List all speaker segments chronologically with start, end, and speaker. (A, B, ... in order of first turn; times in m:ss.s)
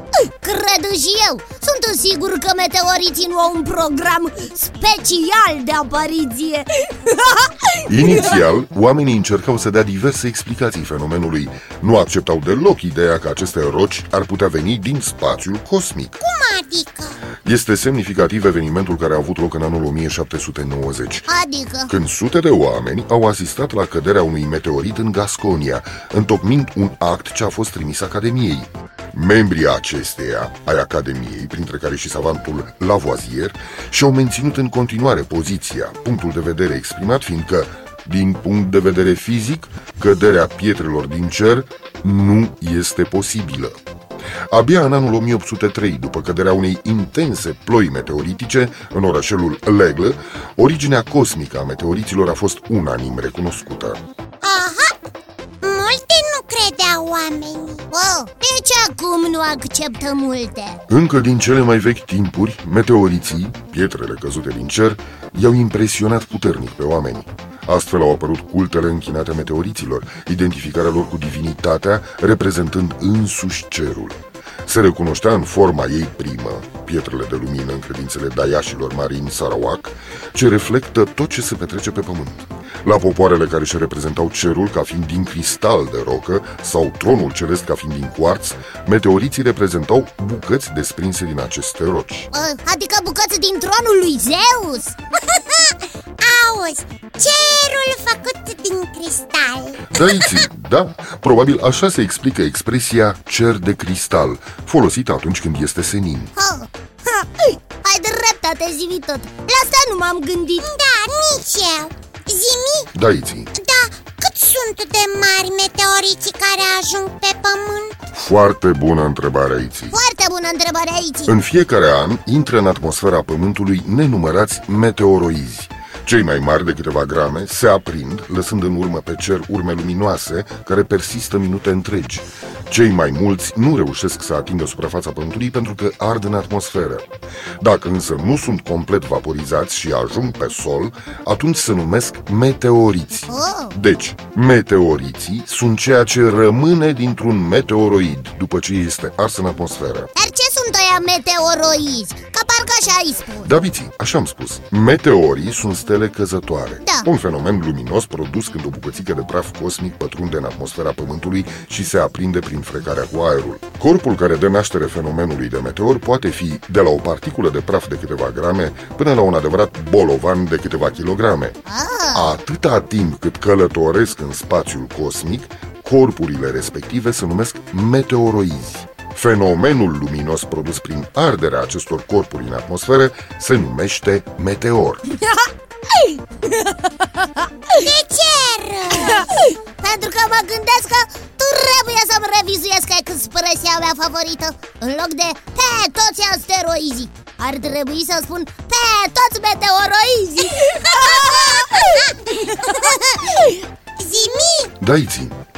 0:00.2-0:08.3 A
0:07.9-0:16.2 B
0:16.2-0:17.2 C
0:17.4-0:21.3 B
0:21.3-0:21.9 A
0:21.9-0:43.8 B
0:44.5-0:54.0 B
0:54.4-0:55.0 C
0:55.6-0:57.8 C
0:57.9-1:00.8 A
1:00.9-1:32.3 B
1:32.3-1:35.0 A
1:36.2-1:39.9 C
1:39.8-1:46.3 B
1:46.4-1:50.7 A
1:50.6-1:52.9 C
1:52.9-1:53.5 B
1:53.5-1:58.0 C
1:58.1-2:00.0 B
1:59.9-2:01.4 A
2:01.3-2:17.1 B
2:17.6-2:30.1 B
2:23.3-2:23.8 A
2:30.2-2:33.5 A
2:33.4-2:51.6 B
2:36.8-2:37.1 A
2:51.7-2:52.4 A
2:52.1-3:05.0 B
3:06.4-3:06.7 A
3:07.8-3:09.3 C
3:09.0-3:23.5 A
3:24.0-3:24.7 C
3:24.8-3:25.4 B